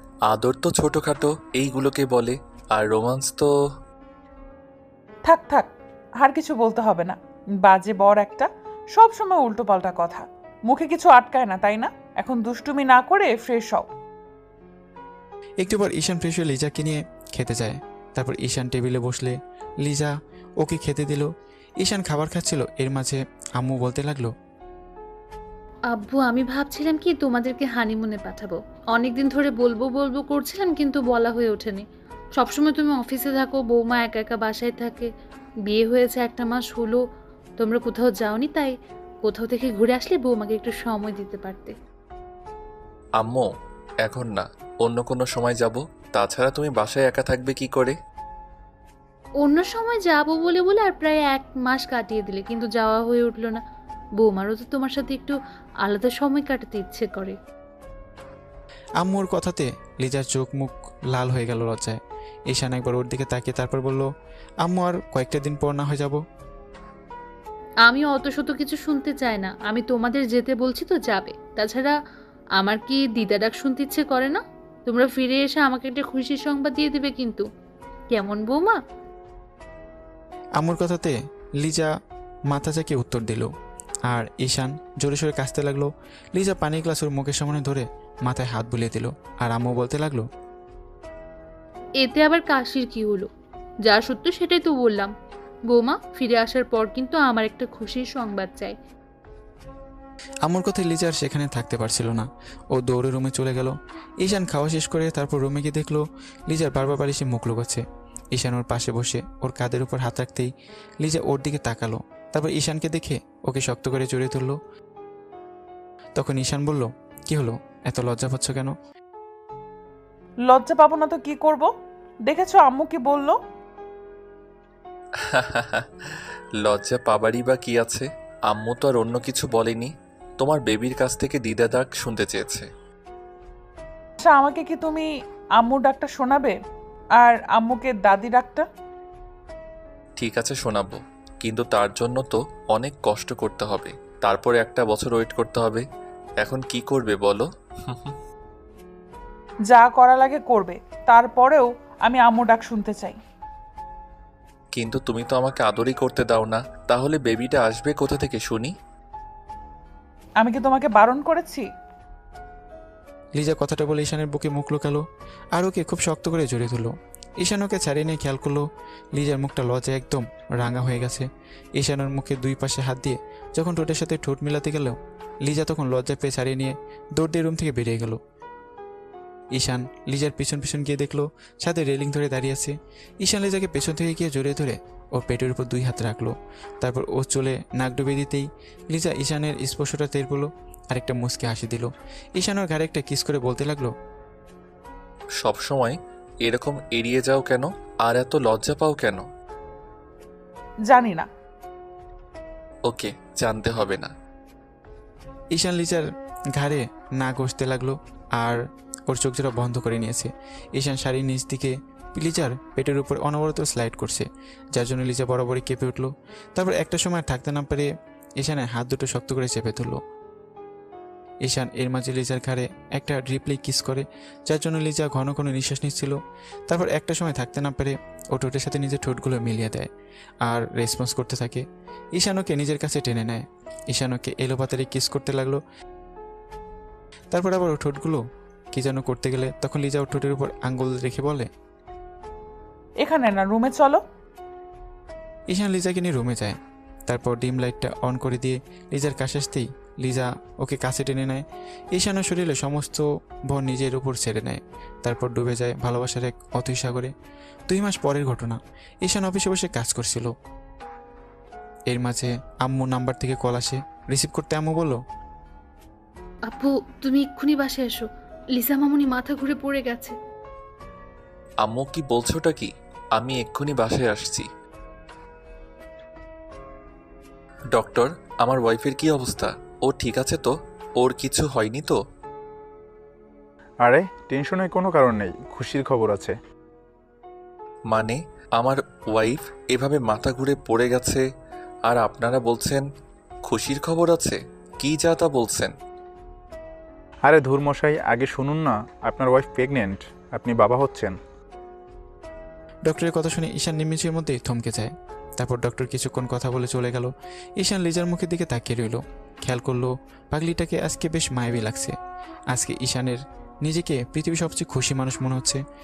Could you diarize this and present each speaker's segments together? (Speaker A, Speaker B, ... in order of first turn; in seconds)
Speaker A: 0.3-3.5, 43.2-43.5, 44.0-47.9, 125.3-125.8, 126.6-132.7, 140.2-145.8, 146.4-148.1, 154.7-158.7, 195.4-199.2, 202.9-204.1, 271.6-274.4, 277.7-281.9, 287.9-291.2, 291.9-292.8, 293.4-295.7
Speaker B: 5.2-13.9, 120.5-121.7, 122.2-123.4, 134.2-136.6, 137.2-138.7, 149.7-153.2, 160.4-161.7, 200.9-201.3, 243.0-244.0
Speaker C: 15.6-21.3, 21.8-24.3, 59.0-62.0, 62.5-64.0, 64.6-66.2, 80.6-81.9, 82.5-83.5, 84.1-90.2, 100.5-107.8, 108.3-110.5, 111.0-114.5, 116.2-118.7, 163.3-165.0, 165.5-168.6, 169.1-171.2, 171.8-178.2, 179.5-193.9, 205.5-206.0, 206.6-217.9, 218.4-220.0, 221.4-226.2, 226.7-229.9, 230.4-231.6, 232.2-235.6, 237.3-238.2, 238.7-241.5, 245.5-246.6, 247.1-257.1, 257.7-260.3, 261.9-265.0, 302.9-311.9, 312.5-315.6
Speaker D: 25.9-31.8, 32.4-35.1, 35.7-37.0, 37.6-41.7, 49.4-53.6, 54.2-57.4, 67.8-71.9, 72.6-77.4, 78.1-78.8, 92.0-93.3, 93.8-95.1, 95.7-98.7, 266.5-270.1
Speaker E: 283.8-286.3, 297.2-301.1